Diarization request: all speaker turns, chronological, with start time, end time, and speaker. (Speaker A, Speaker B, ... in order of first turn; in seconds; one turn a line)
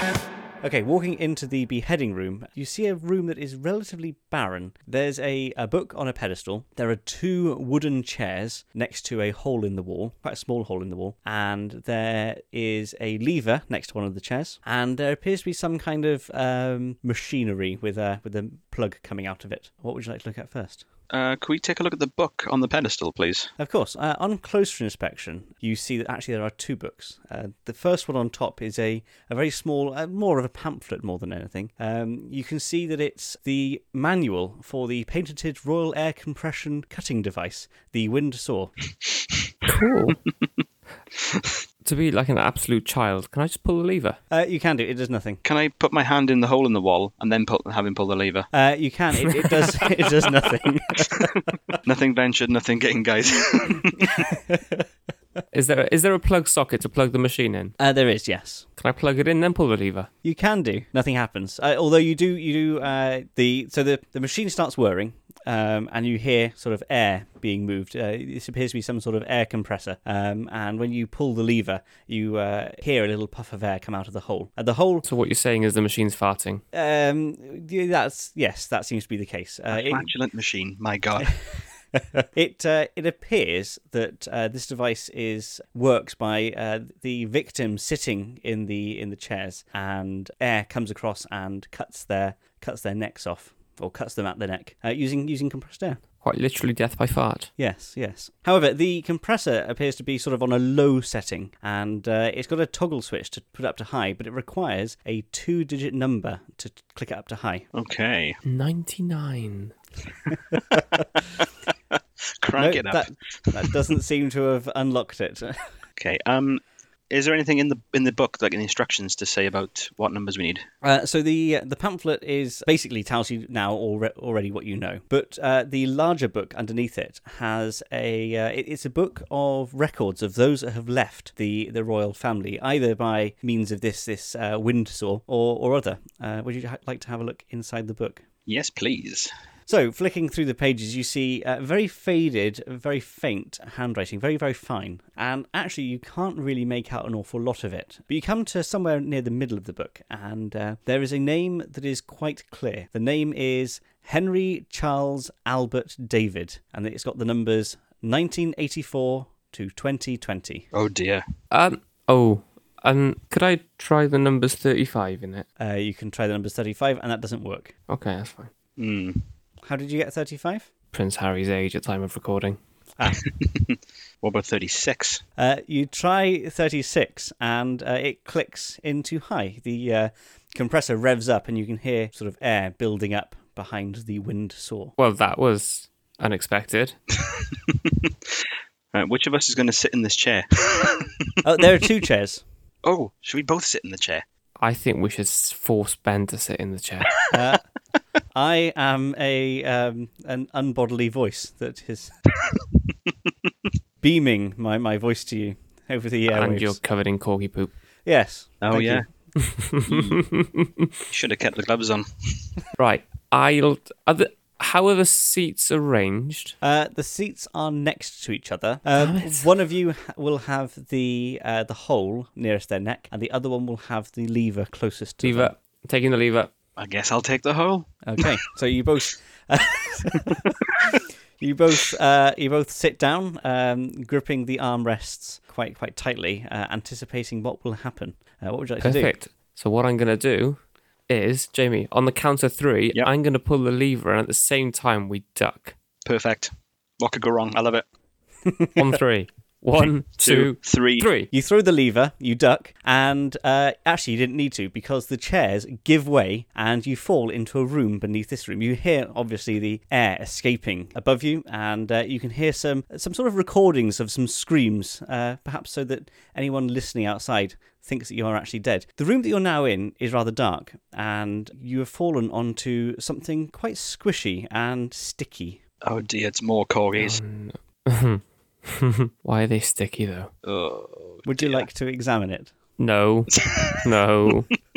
Speaker A: 0.6-20.9
Speaker B: 21.1-23.5
Speaker A: 23.6-38.7
Speaker C: 39.7-40.2
Speaker B: 41.2-41.5
Speaker C: 41.8-44.2
Speaker A: 44.3-45.4
Speaker B: 45.4-48.5
Speaker A: 48.5-51.5
Speaker B: 49.4-50.2
Speaker B: 51.0-54.4
Speaker A: 54.1-54.8
Speaker C: 55.5-57.8
Speaker A: 57.8-58.7
Speaker C: 58.8-60.1
Speaker A: 60.2-75.0
Speaker C: 75.0-76.6
Speaker A: 76.7-80.1
Speaker B: 79.7-81.3
Speaker A: 82.0-96.0
Speaker C: 96.2-97.5
Speaker A: 97.6-107.7
Speaker B: 107.7-108.4
Speaker C: 108.4-109.8
Speaker A: 110.5-111.1
Speaker B: 112.4-113.7
Speaker A: 112.6-115.7
Speaker B: 116.0-120.6
Speaker A: 120.8-138.2
Speaker B: 138.5-139.3
Speaker A: 139.7-160.7
Speaker B: 160.7-161.2
Speaker C: 161.5-165.5
Speaker A: 165.6-167.7
Speaker C: 167.9-168.5
Speaker B: 168.8-169.3
Speaker A: 169.6-170.7
Speaker C: 170.9-172.6
Speaker B: 173.1-175.2
Speaker A: 175.4-184.9
Speaker C: 185.0-187.0
Speaker B: 187.2-188.1
Speaker B: 188.9-191.2
Speaker A: 191.4-192.4
Speaker B: 192.8-194.2
Speaker C: 194.6-197.2
Speaker A: 197.3-197.6
Speaker A: 198.3-202.2
Speaker A: 204.0-206.8
Speaker C: 206.3-207.7
Speaker A: 208.1-209.1
Speaker B: 208.6-209.1
Speaker C: 209.3-210.9
Speaker B: 209.8-210.2
Speaker B: 211.1-212.5
Speaker C: 212.8-216.6
Speaker A: 216.6-225.6
Speaker C: 219.0-219.5
Speaker C: 225.2-226.5
Speaker B: 226.8-228.3
Speaker A: 228.0-239.2
Speaker C: 238.8-245.8
Speaker B: 246.1-247.8
Speaker A: 248.5-248.8
Speaker C: 248.8-251.3
Speaker B: 249.9-251.1
Speaker A: 251.3-275.6
Speaker B: 275.8-277.2
Speaker C: 277.0-280.3
Speaker B: 280.4-281.7
Speaker A: 281.3-282.5
Speaker C: 282.8-284.5
Speaker B: 283.3-283.9